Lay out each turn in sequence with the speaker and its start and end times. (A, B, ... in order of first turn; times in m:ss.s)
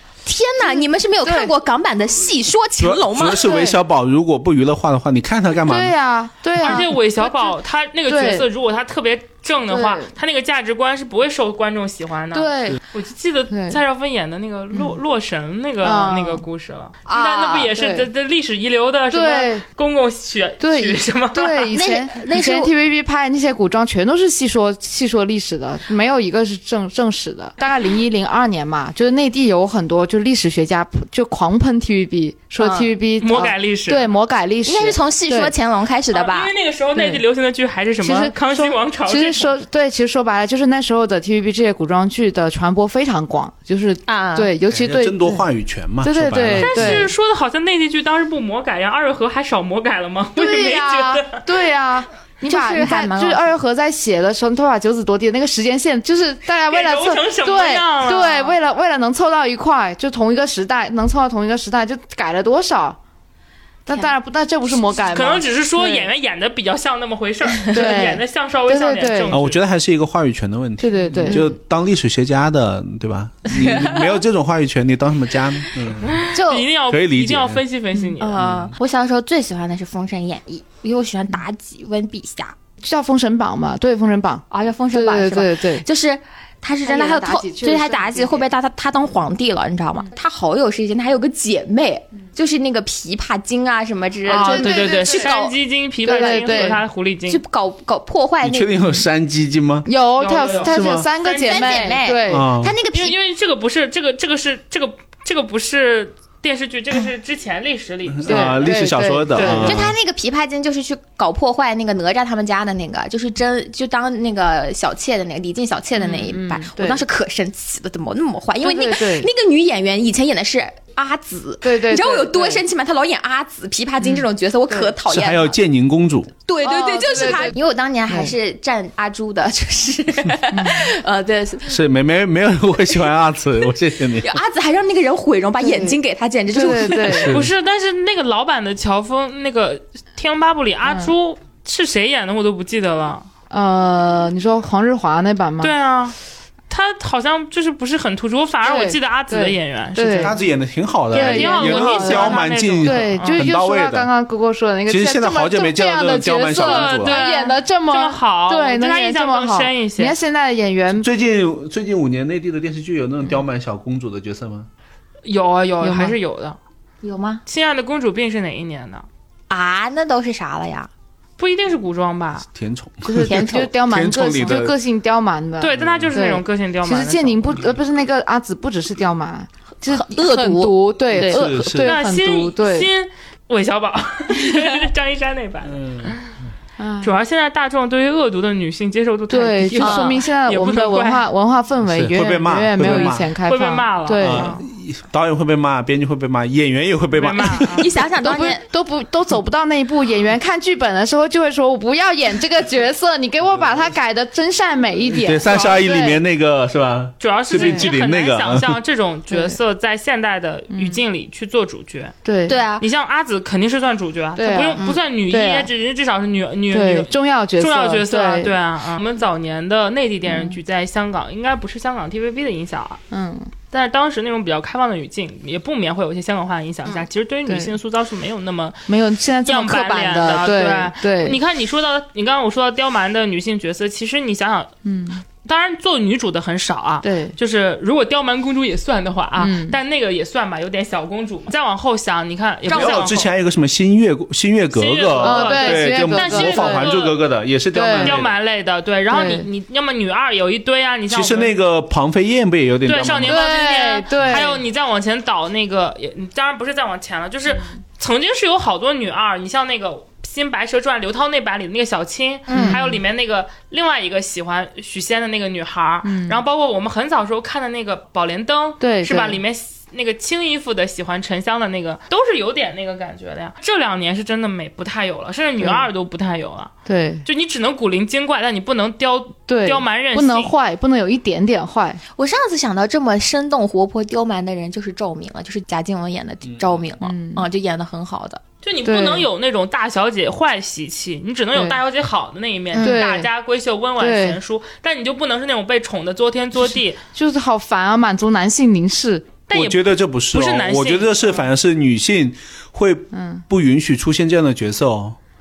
0:00.3-0:03.5 A
0:00.6-0:01.5 B
0:02.8-0:05.9 C
0:03.4-0:03.8 B
0:05.6-0:07.6 B
0:06.6-0:21.7 D
0:08.1-0:08.5 B
0:09.7-0:10.1 B
0:12.3-0:12.8 B
0:13.5-0:13.8 B
0:14.7-0:15.0 B
0:15.8-0:16.4 B
0:17.1-0:17.7 A
0:17.7-0:18.1 B
0:19.1-0:19.6 B
0:20.6-0:35.5 B
0:21.7-0:22.7 A
0:32.6-0:32.9 A
0:33.2-0:34.0 D
0:34.6-0:36.5 A
0:36.1-0:39.6 D
0:37.0-0:37.2 B
0:38.0-0:45.4 B
0:44.1-0:44.5 A
0:44.7-0:47.1 C
0:46.0-0:47.1 B
0:46.6-0:51.4 D
0:50.4-1:03.0 B
0:52.4-0:53.5 A
0:56.7-0:58.5 D
1:03.9-1:06.1 B
1:05.1-1:09.6 D
1:07.7-1:09.4 B
1:09.3-1:16.3 C
1:10.8-1:11.5 B
1:13.6-1:14.2 A
1:16.0-1:18.4 D
1:16.3-1:16.7 A
1:16.9-1:17.6 C
1:18.2-1:22.6 A
1:18.4-1:18.7 C
1:22.8-1:25.8 B
1:24.5-1:35.5 A
1:26.8-1:28.5 B
1:34.3-1:35.4 B
1:34.3-1:37.4 D
1:36.0-1:36.8 B
1:36.2-1:36.6 A
1:37.3-1:38.8 A
1:38.4-1:39.9 C
1:39.9-1:42.5 B
1:40.2-1:42.0 D
1:40.7-1:41.1 C
1:41.4-1:43.2 A
1:42.3-1:42.7 C
1:42.9-1:48.7 D
1:48.1-1:50.0 C
1:48.3-1:49.8 B
1:49.4-1:49.7 D
1:49.4-2:05.6 A
1:56.0-1:57.0 B
1:58.6-1:59.3 B
2:01.6-2:02.6 B
2:04.0-2:05.0 B
2:05.1-2:06.3 C
2:06.5-2:11.8 A
2:06.6-2:07.6 B
2:08.1-2:08.3 B
2:10.5-2:10.9 B
2:11.7-2:14.4 C
2:14.2-2:17.3 A
2:15.6-2:16.0 B
2:16.5-2:17.4 B
2:17.1-2:17.5 C
2:17.2-2:23.3 D
2:20.9-2:21.1 B
2:23.5-2:25.7 B
2:25.6-2:26.2 D
2:26.7-2:30.4 D
2:28.6-2:30.4 B
2:30.2-2:34.1 C
2:31.1-2:41.1 B
2:31.1-2:33.4 D
2:34.9-2:37.2 C
2:36.5-2:40.2 D
2:41.0-2:44.7 C
2:45.2-2:46.6 D
2:45.8-2:46.2 B
2:47.0-2:47.4 A
2:47.5-2:49.1 D
2:49.5-2:50.9 A
2:51.4-2:52.5 D
2:52.5-2:54.7 C
2:53.0-3:02.9 B
2:53.2-2:53.7 A
2:55.6-2:57.6 D
2:55.8-2:56.2 C
2:59.8-3:01.6 A
3:01.1-3:02.0 C
3:01.8-3:06.3 D
3:05.7-3:06.2 C
3:06.8-3:07.2 B
3:07.0-3:11.2 D
3:09.3-3:14.6 B
3:09.8-3:10.2 A
3:11.8-3:13.3 C
3:12.8-3:14.6 D
3:14.2-3:17.8 C
3:17.2-3:17.9 D
3:17.7-3:18.6 A
3:18.2-3:26.2 B
3:23.5-3:23.8 C
3:25.1-3:28.8 C
3:27.2-3:32.1 D
3:27.6-3:27.9 B
3:29.3-3:29.6 B
3:30.7-3:31.0 B
3:32.2-3:32.6 B
3:32.5-3:32.8 A
3:32.8-3:43.0 D
3:34.4-3:35.7 B
3:36.7-3:38.5 B
3:40.3-3:40.6 B
3:43.1-3:43.5 B
3:43.7-3:48.8 D
3:47.5-3:47.7 B
3:48.9-3:51.4 B
3:49.4-3:54.7 D
3:54.8-3:55.2 B
3:55.4-4:03.3 D
3:57.0-3:57.4 B
3:59.4-3:59.8 B
4:02.7-4:03.3 A
4:02.7-4:08.3 C
4:04.7-4:07.2 D
4:05.2-4:06.9 B
4:07.7-4:08.2 B
4:07.9-4:11.5 D
4:09.1-4:09.5 B
4:11.1-4:13.4 C
4:12.8-4:36.7 D
4:13.2-4:14.6 B
4:22.5-4:22.8 A
4:22.5-4:23.0 B
4:26.0-4:26.4 B
4:28.8-4:29.4 B
4:35.6-4:35.9 B
4:36.9-4:37.2 B
4:37.2-4:40.5 D
4:39.5-4:42.0 B
4:42.2-4:48.4 A
4:46.5-4:46.8 C
4:47.0-4:47.4 B
4:48.6-4:57.0 D
4:48.8-4:49.3 B
4:52.7-4:53.0 A
4:52.8-4:53.3 B
4:54.0-4:54.4 B
4:57.1-4:59.4 B
4:59.5-5:01.4 D
4:59.5-5:05.2 C
5:03.1-5:03.4 B